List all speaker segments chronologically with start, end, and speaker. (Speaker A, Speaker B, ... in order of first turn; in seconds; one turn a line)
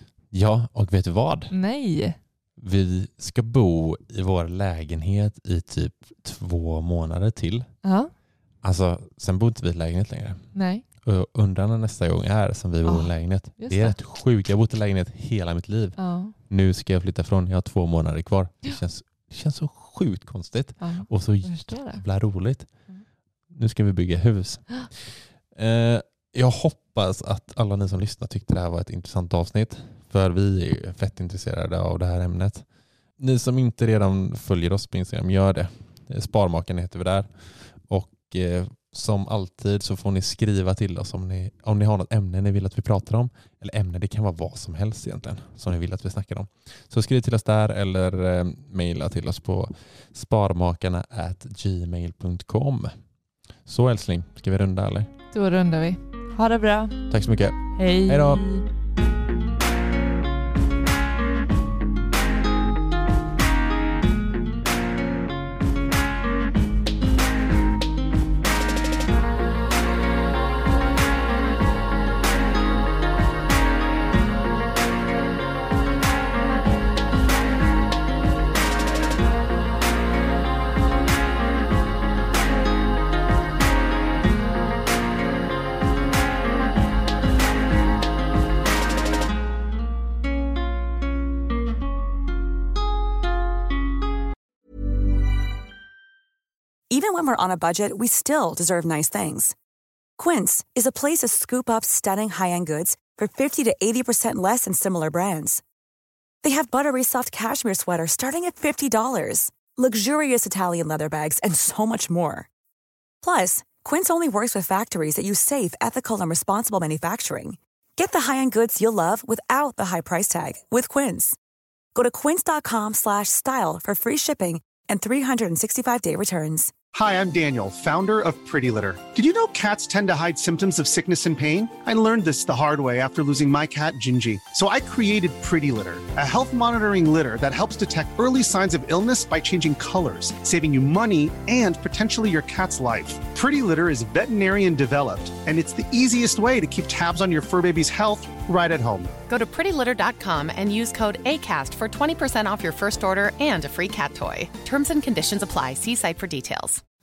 Speaker A: 0.3-1.5
Speaker B: 1.5-2.2
Speaker A: 2.6-7.7
Speaker B: 7.8-8.1
Speaker A: 8.6-10.4
Speaker B: 10.5-10.8
Speaker A: 11.0-22.7
Speaker B: 12.8-14.0
Speaker B: 16.0-16.3
Speaker B: 20.8-22.0
Speaker A: 23.5-32.6
Speaker A: 33.2-37.3
Speaker A: 37.9-52.9
Speaker A: 53.6-55.1
Speaker B: 55.3-57.0
Speaker A: 57.1-58.4
Speaker B: 57.7-58.6
Speaker C: 96.9-99.5
Speaker C: 100.2-105.6
Speaker C: 106.4-112.5
Speaker C: 113.2-121.4
Speaker C: 121.9-126.7
Speaker D: 126.9-149.1
Speaker E: 149.3-156.8